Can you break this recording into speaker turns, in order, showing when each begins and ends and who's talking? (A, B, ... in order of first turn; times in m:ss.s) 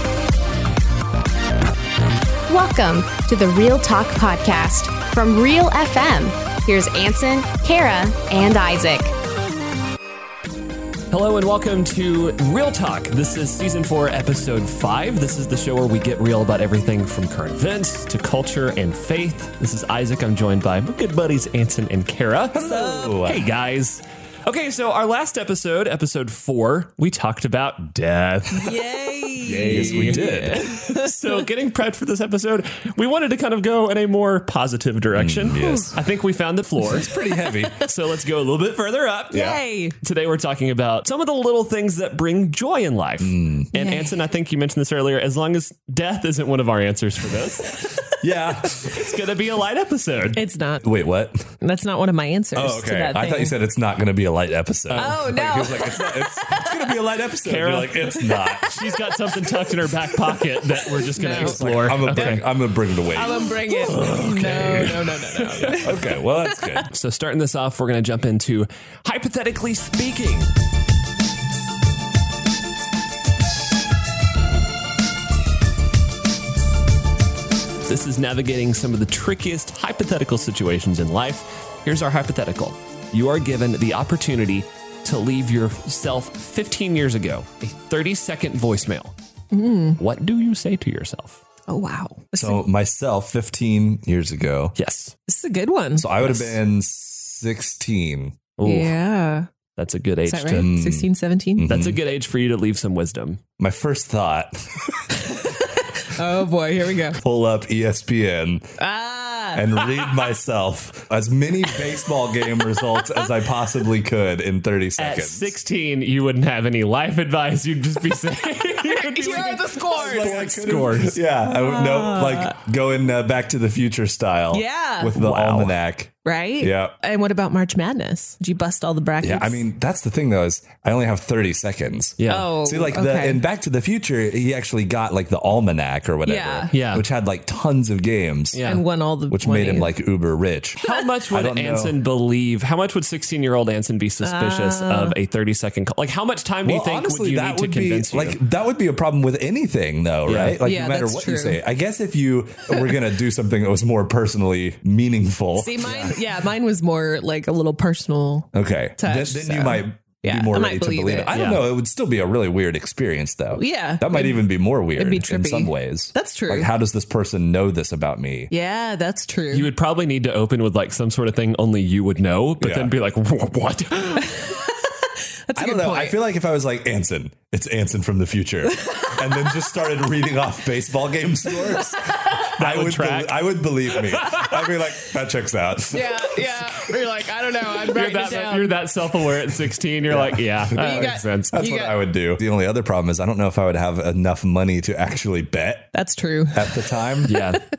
0:02.5-0:09.1 A
0:11.1-0:22.6 B
0:22.5-0:23.4 C
0:22.6-0:23.3 D
0:23.2-0:28.8 B
0:28.5-0:31.4 D
0:29.4-0:37.1 B
0:29.5-0:30.6 C
0:35.1-0:36.0 C
0:35.6-0:35.9 D
0:36.8-0:37.8 C
0:37.1-0:37.7 D
0:37.7-0:48.0 B
0:39.3-0:40.0 D
0:39.3-0:39.6 C
0:43.2-0:43.7 C
0:43.7-0:44.2 D
0:48.2-0:48.9 C
0:48.7-0:50.4 B
0:50.3-0:50.9 D
0:50.8-0:51.5 C
0:51.6-0:53.6 D
0:52.6-0:58.7 C
0:54.9-0:55.2 B
0:54.9-0:57.0 D
0:57.4-1:02.5 B
0:58.2-0:58.8 D
1:01.2-1:02.4 D
1:01.3-1:05.0 C
1:03.1-1:06.8 D
1:03.9-1:05.8 B
1:05.6-1:06.9 C
1:06.9-1:10.5 B
1:17.8-1:29.1 B
1:29.5-1:30.0 D
1:30.0-1:31.4 B
1:31.7-1:32.6 D
1:32.4-1:34.8 C
1:34.8-1:35.1 B
1:35.3-1:36.6 D
1:36.0-1:38.4 C
1:38.6-1:39.0 B
1:38.6-1:39.5 D
1:39.8-1:40.7 B
1:40.3-1:41.7 D
1:40.5-1:42.0 C
1:41.7-1:43.4 B
1:43.6-1:45.1 C
1:45.1-1:47.2 D
1:47.2-1:48.7 C
1:48.8-1:50.3 D
1:49.5-1:55.5 C
1:52.7-1:53.3 D
1:55.0-2:01.2 B
1:58.8-2:00.9 D
2:00.0-2:06.9 C
2:01.4-2:02.6 D
2:04.5-2:05.4 D
2:05.2-2:05.7 B
2:06.2-2:09.6 D
2:09.2-2:18.6 C
2:12.2-2:12.5 B
2:12.2-2:13.4 D
2:16.3-2:16.7 D
2:16.7-2:17.0 B
2:18.5-2:18.8 B
2:18.6-2:19.9 D
2:19.3-2:22.0 C
2:20.8-2:28.4 B
2:24.2-2:25.2 D
2:26.6-2:36.2 C
2:30.3-2:30.6 B
2:30.6-2:31.6 D
2:35.6-2:41.4 D
2:38.5-2:48.5 C
2:41.3-2:41.6 B
2:43.6-2:46.7 D
2:48.5-2:49.7 D
2:49.5-2:54.3 B
2:52.6-2:52.9 C
2:54.2-2:56.2 D
2:55.6-3:06.9 C
2:58.8-2:59.1 D
3:01.6-3:02.0 D
3:02.6-3:03.5 B
3:04.2-3:04.5 B
3:05.9-3:08.9 D
3:07.8-3:11.6 B
3:10.1-3:15.9 C
3:10.8-3:12.0 D
3:15.9-3:17.6 D
3:16.5-3:17.4 C
3:17.3-3:17.6 B